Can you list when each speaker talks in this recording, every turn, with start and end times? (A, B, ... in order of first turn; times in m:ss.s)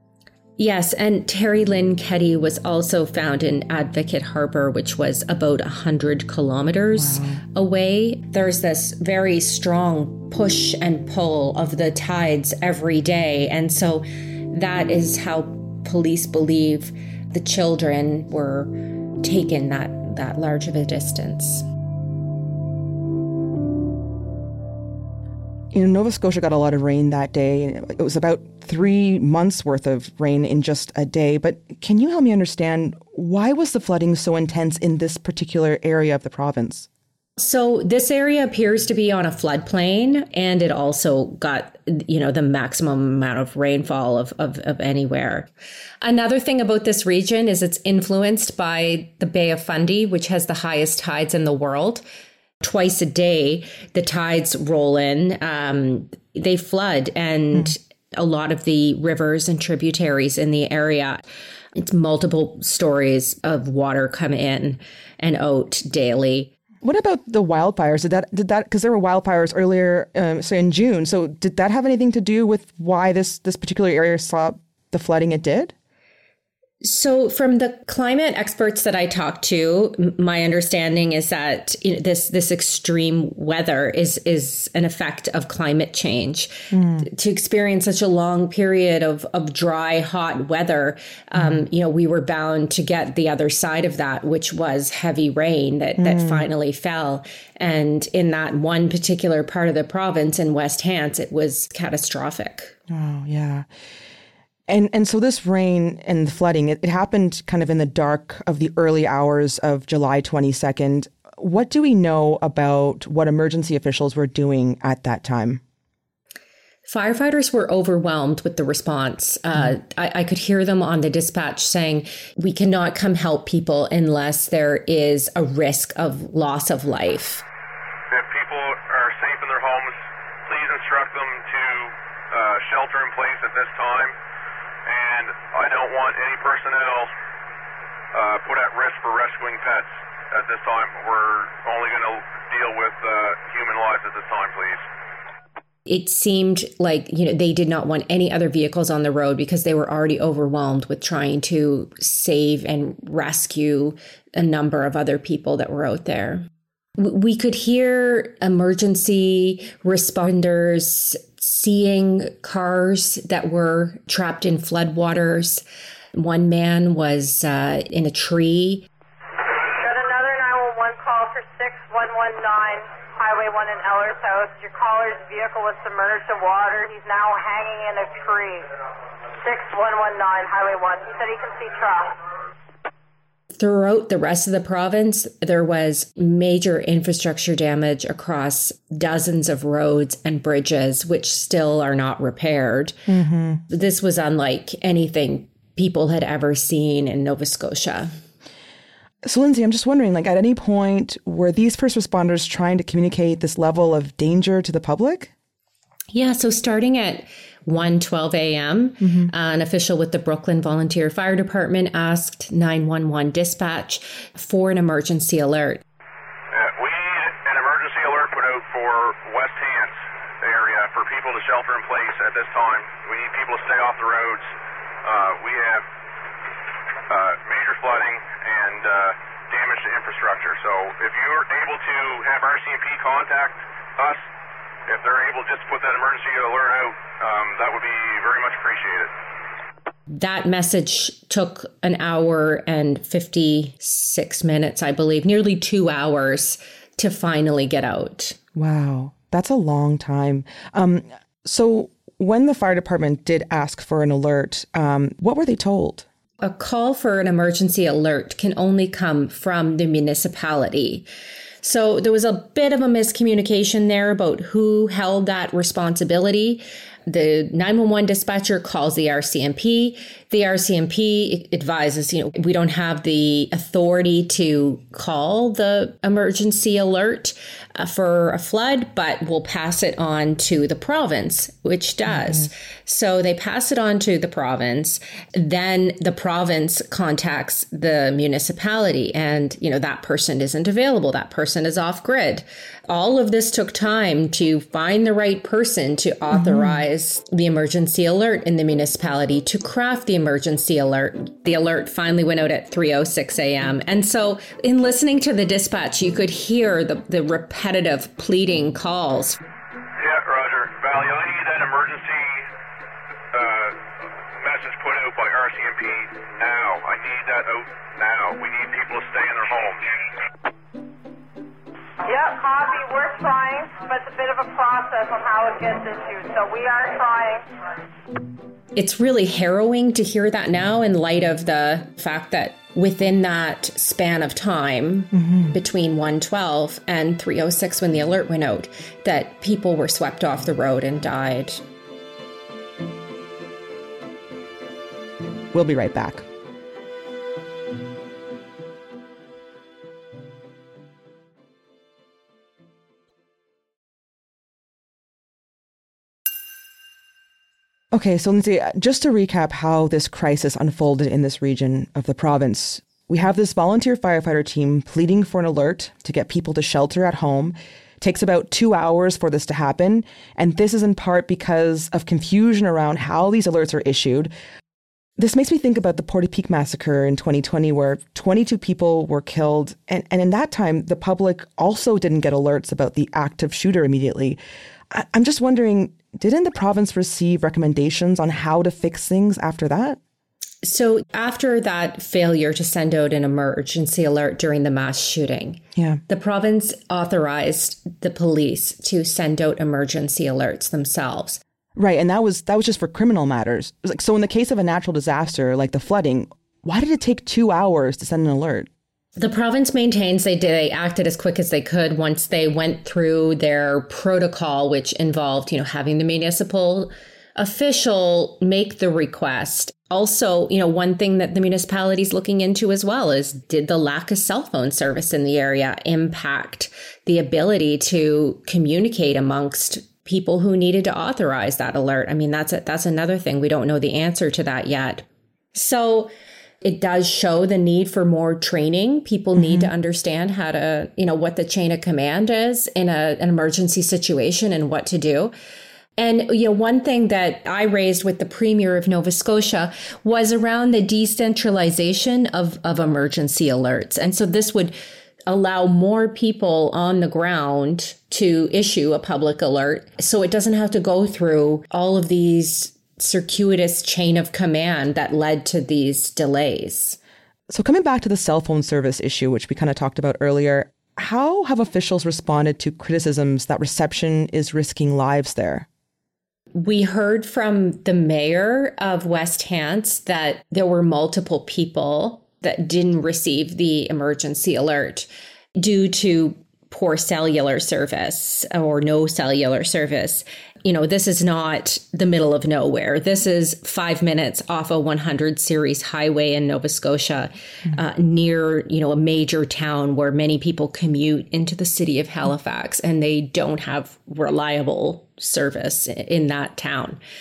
0:00.6-0:21.7 A
0:06.9-0:07.4 B
0:25.7-0:36.9 B
0:37.4-0:45.5 A
0:46.0-0:52.0 A
0:52.6-1:01.2 A
1:01.8-1:06.5 A
1:06.8-1:15.7 B
1:16.8-1:42.8 A
1:26.7-1:27.1 B
1:36.0-1:36.5 B
1:42.9-1:43.7 B
1:44.7-1:55.6 B
1:56.9-2:07.4 A
2:08.1-2:14.2 C
2:14.9-2:17.1 C
2:18.1-2:24.8 C
2:25.9-2:36.4 A
2:37.0-2:48.9 A
2:49.6-2:58.7 D
2:59.4-3:02.1 D
3:03.6-3:13.0 A
3:13.1-3:13.6 B
3:13.7-3:18.1 A
3:19.2-3:25.3 B
3:26.1-3:35.8 A
3:29.0-3:29.3 B
3:36.5-3:44.5 C
3:45.0-3:45.9 C
3:47.1-3:54.2 C
3:54.9-3:59.1 C
4:00.1-4:08.4 A
4:08.6-4:16.1 B
4:16.4-4:21.1 A
4:21.6-5:09.4 A
4:56.3-4:56.7 B
5:10.0-5:12.5 C
5:13.3-5:13.8 C
5:14.4-5:19.9 C
5:22.0-5:27.4 D
5:28.8-5:41.6 A
5:35.2-5:35.5 B
5:45.5-5:46.2 B
5:57.9-6:14.3 B
6:15.2-6:24.4 B
6:24.9-6:30.0 B
6:30.6-6:41.4 A
6:41.8-6:48.7 B
6:49.2-7:16.1 A
7:16.6-7:25.3 A
7:19.4-7:19.6 B
7:26.0-7:34.8 A
7:35.3-7:47.0 A
7:47.5-7:55.7 B
7:56.5-8:27.0 A